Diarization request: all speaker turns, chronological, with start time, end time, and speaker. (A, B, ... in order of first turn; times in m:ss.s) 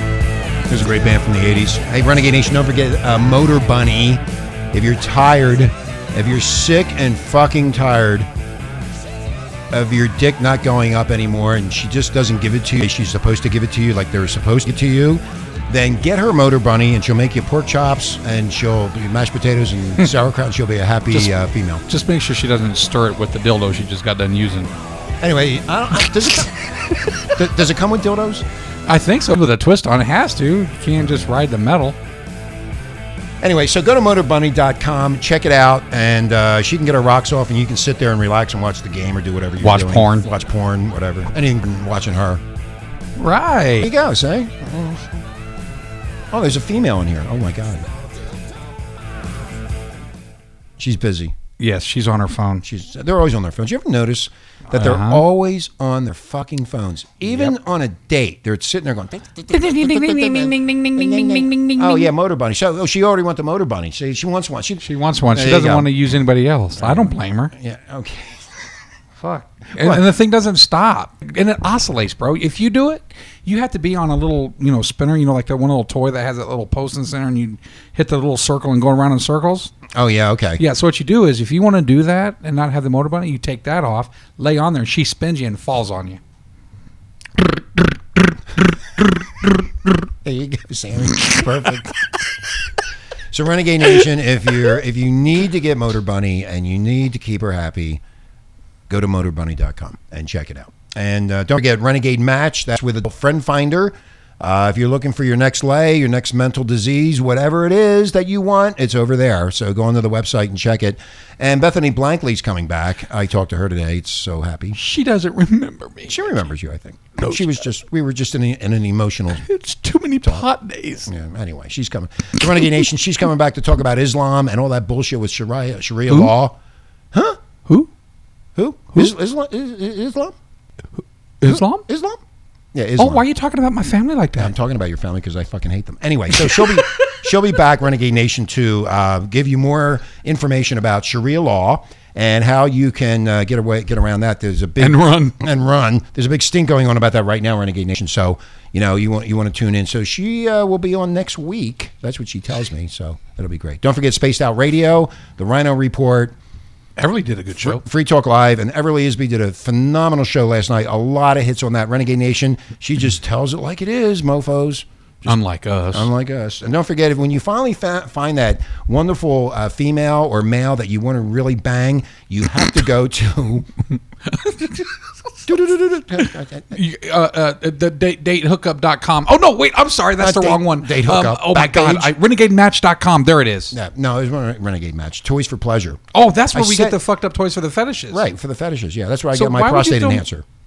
0:00.7-0:08.3 A
0:09.7-0:21.8 A
0:21.9-0:24.7 B
0:25.2-0:26.5 A
0:27.3-0:28.4 A
0:28.9-0:32.0 B
0:33.4-0:42.4 A
0:39.6-0:40.3 B
0:43.2-0:43.9 B
0:43.8-0:45.2 A
0:46.3-0:47.9 A
0:50.8-0:51.4 A
0:51.6-0:52.6 B
0:52.6-1:05.9 A
0:54.7-0:55.2 B
0:59.5-1:02.1 B
1:04.8-1:07.5 B
1:06.8-1:08.5 A
1:09.2-1:19.8 B
1:09.8-1:10.0 A
1:19.9-1:20.6 A
1:20.6-1:26.2 B
1:30.2-1:32.0 A
1:33.3-1:38.0 A
1:38.9-1:54.8 A
1:54.7-1:56.3 B
1:56.1-1:59.5 A
1:57.2-1:57.5 B
1:59.4-2:01.1 B
2:01.1-2:06.6 A
2:07.1-2:07.4 A
2:08.6-2:10.4 A
2:11.4-2:11.8 B
2:11.4-2:12.2 A
2:12.7-2:13.3 A
2:13.0-2:14.5 B
2:14.4-2:36.4 A
2:16.4-2:17.3 B
2:24.8-2:25.4 B
2:37.0-2:37.8 B
2:37.6-2:45.4 A
2:45.2-2:46.1 B
2:45.9-2:53.7 A
2:54.3-2:55.0 B
2:55.5-2:56.8 A
2:56.2-3:03.8 B
3:00.2-3:02.2 A
3:03.7-3:06.0 A
3:06.1-3:08.3 B
3:06.5-3:07.0 A
3:08.1-3:10.4 A
3:09.3-3:10.2 B